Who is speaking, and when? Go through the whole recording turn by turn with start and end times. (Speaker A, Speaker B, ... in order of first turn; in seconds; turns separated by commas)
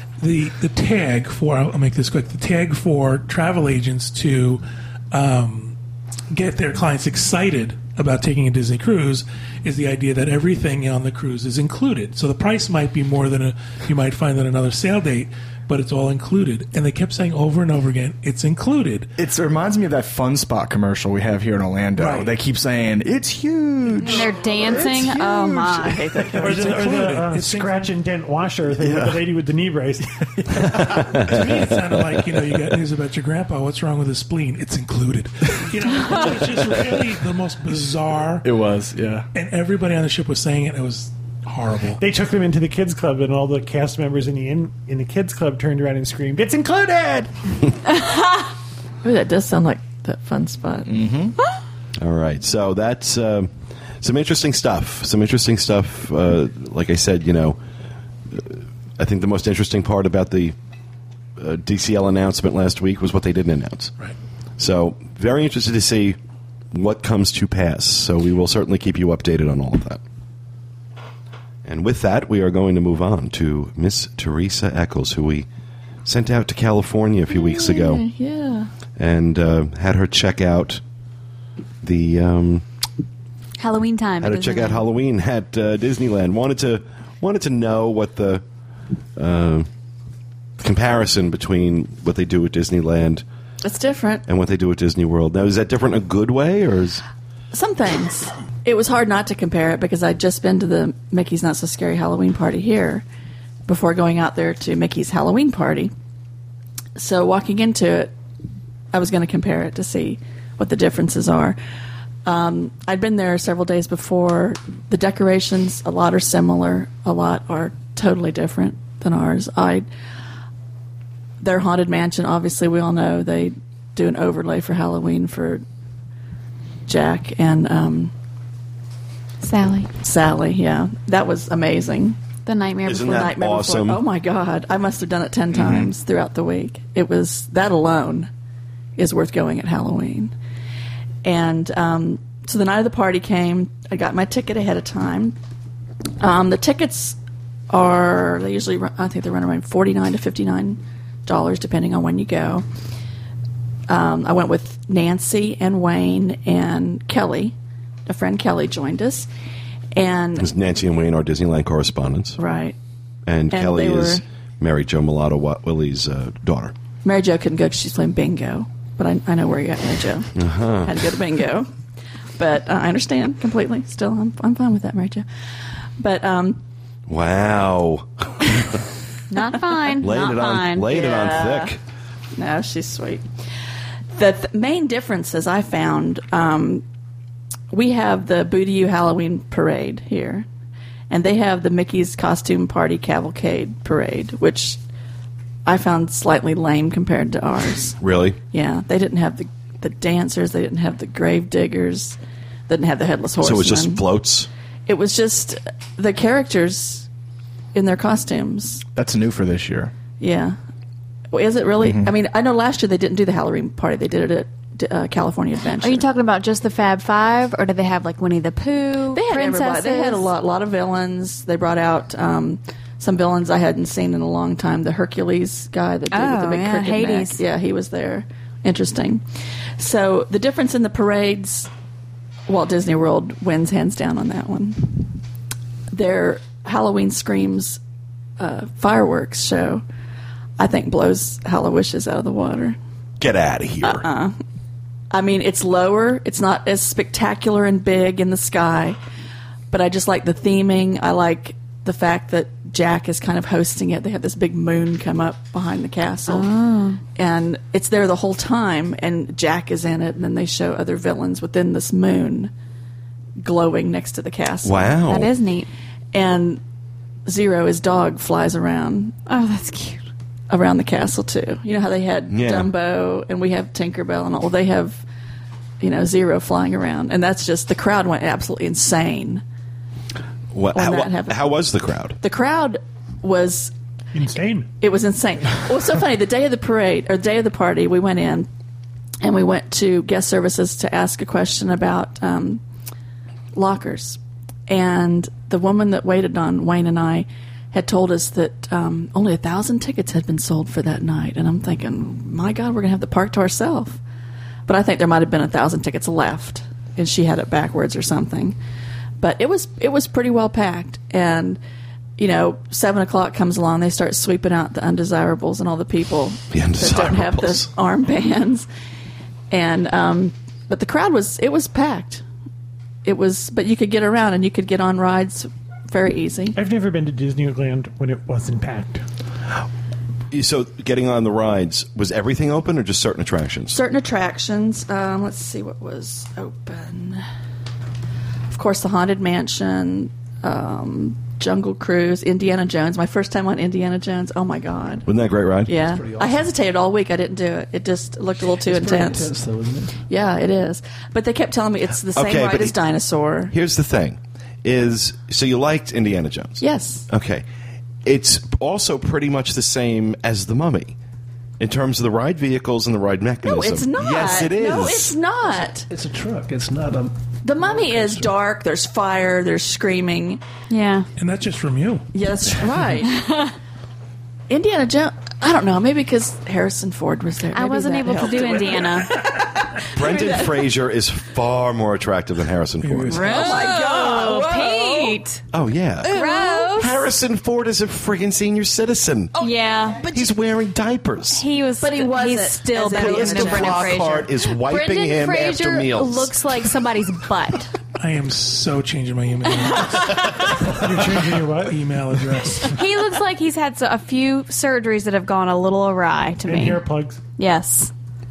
Speaker A: 0.2-5.8, Speaker A: 6.3-19.1, Speaker B: 19.2-26.4, Speaker A: 22.0-22.3, Speaker C: 24.0-26.1, Speaker D: 25.9-26.7, Speaker E: 26.4-30.8, Speaker A: 26.4-27.9, Speaker B: 28.8-29.2, Speaker B: 30.4-30.8, Speaker A: 30.9-38.4, Speaker F: 31.1-31.4, Speaker B: 38.4-39.2, Speaker A: 39.3-42.0, Speaker E: 42.0-47.3, Speaker D: 49.0-50.9, Speaker B: 50.9-51.3, Speaker F: 52.0-53.5, Speaker F: 54.0-57.6, Speaker F: 58.3-60.5, Speaker F: 61.4-63.9, Speaker F: 64.6-66.2, Speaker F: 66.7-70.0, Speaker F: 71.6-75.5, Speaker F: 76.0-78.0, Speaker D: 77.3-78.7, Speaker F: 79.0-80.8, Speaker F: 81.8-82.6, Speaker C: 83.6-84.8, Speaker F: 84.2-88.4, Speaker F: 89.2-89.7, Speaker F: 90.6-93.2, Speaker D: 93.6-94.2, Speaker F: 94.2-97.0, Speaker D: 97.5-103.0, Speaker D: 103.7-105.9, Speaker D: 107.0-108.1, Speaker D: 108.9-111.6, Speaker D: 112.2-119.9, Speaker D: 121.4-125.6, Speaker D: 126.9-128.1, Speaker C: 129.4-129.9, Speaker D: 130.0-132.2, Speaker C: 132.4-133.3, Speaker F: 132.8-134.0, Speaker D: 133.1-138.3, Speaker D: 138.9-140.3, Speaker D: 141.2-145.3, Speaker D: 146.2-147.2, Speaker D: 147.7-152.6, Speaker D: 153.9-157.5, Speaker D: 158.1-159.3, Speaker D: 159.9-160.5, Speaker F: 160.4-162.4, Speaker D: 162.4-162.8, Speaker F: 163.3-166.7, Speaker D: 163.5-164.2, Speaker D: 167.0-170.3, Speaker F: 170.3-170.9, Speaker D: 170.8-171.7, Speaker D: 172.4-175.2, Speaker D: 176.0-176.6, Speaker F: 177.1-178.8, Speaker C: 179.3-180.9, Speaker F: 180.0-181.8, Speaker D: 180.8-181.8, Speaker D: 182.3-183.2, Speaker D: 184.1-186.8, Speaker D: 187.7-190.5, Speaker D: 191.1-194.8, Speaker D: 195.7-197.9, Speaker F: 198.0-198.4, Speaker D: 198.5-202.2, Speaker D: 202.7-204.0, Speaker F: 203.4-204.5, Speaker D: 204.9-207.1, Speaker D: 207.7-208.8, Speaker B: 208.9-209.9, Speaker D: 210.2-210.6, Speaker D: 211.3-216.1, Speaker B: 211.8-212.1, Speaker C: 215.8-220.3, Speaker D: 219.1-229.2, Speaker C: 226.1-227.4, Speaker D: 229.8-231.7, Speaker D: 232.5-235.1, Speaker D: 235.9-237.8, Speaker D: 238.4-239.8, Speaker D: 240.6-242.8, Speaker F: 243.2-244.0, Speaker D: 243.8-244.4, Speaker D: 245.1-249.0, Speaker D: 249.7-256.5, Speaker C: 256.3-257.0, Speaker D: 257.1-262.5, Speaker D: 263.4-265.0, Speaker F: 264.6-265.3, Speaker C: 265.1-265.7, Speaker D: 266.1-266.6, Speaker D: 267.2-269.1, Speaker C: 269.3-270.0, Speaker D: 270.5-275.0, Speaker F: 272.3-272.7, Speaker D: 275.8-279.4, Speaker F: 280.5-282.2, Speaker D: 280.7-281.5, Speaker D: 282.2-283.7, Speaker E: 284.1-284.7, Speaker D: 284.8-288.5, Speaker D: 289.2-292.6, Speaker D: 293.5-304.0, Speaker D: 304.7-308.6, Speaker D: 309.2-311.6, Speaker D: 312.2-318.7, Speaker F: 316.5-317.7, Speaker D: 319.5-322.2, Speaker D: 323.0-326.6, Speaker E: 326.5-329.0, Speaker F: 330.3-333.8, Speaker D: 333.7-337.2, Speaker D: 338.5-345.1, Speaker F: 345.1-345.7, Speaker D: 345.6-349.3, Speaker G: 345.7-346.5, Speaker G: 348.5-350.0, Speaker D: 350.1-353.5, Speaker F: 352.1-352.7, Speaker F: 353.5-357.4, Speaker D: 356.6-357.1, Speaker F: 358.0-360.9, Speaker F: 361.6-365.1, Speaker D: 363.4-365.9, Speaker G: 365.4-368.3, Speaker D: 367.4-370.4, Speaker C: 370.7-371.1, Speaker A: 371.2-372.1, Speaker D: 372.1-373.2, Speaker C: 373.1-373.5, Speaker D: 374.5-380.7, Speaker C: 377.5-379.2, Speaker F: 379.9-383.2, Speaker A: 382.8-383.2, Speaker D: 383.1-385.2, Speaker C: 383.1-385.4, Speaker F: 385.5-389.3, Speaker C: 386.0-387.1, Speaker D: 386.1-386.7, Speaker C: 389.4-390.0, Speaker F: 390.1-391.4, Speaker C: 391.3-397.7, Speaker D: 391.8-394.2, Speaker F: 393.5-396.3, Speaker A: 398.0-402.8, Speaker C: 399.9-400.3, Speaker E: 400.7-401.8, Speaker C: 402.6-406.8, Speaker E: 406.4-407.2, Speaker C: 407.4-407.9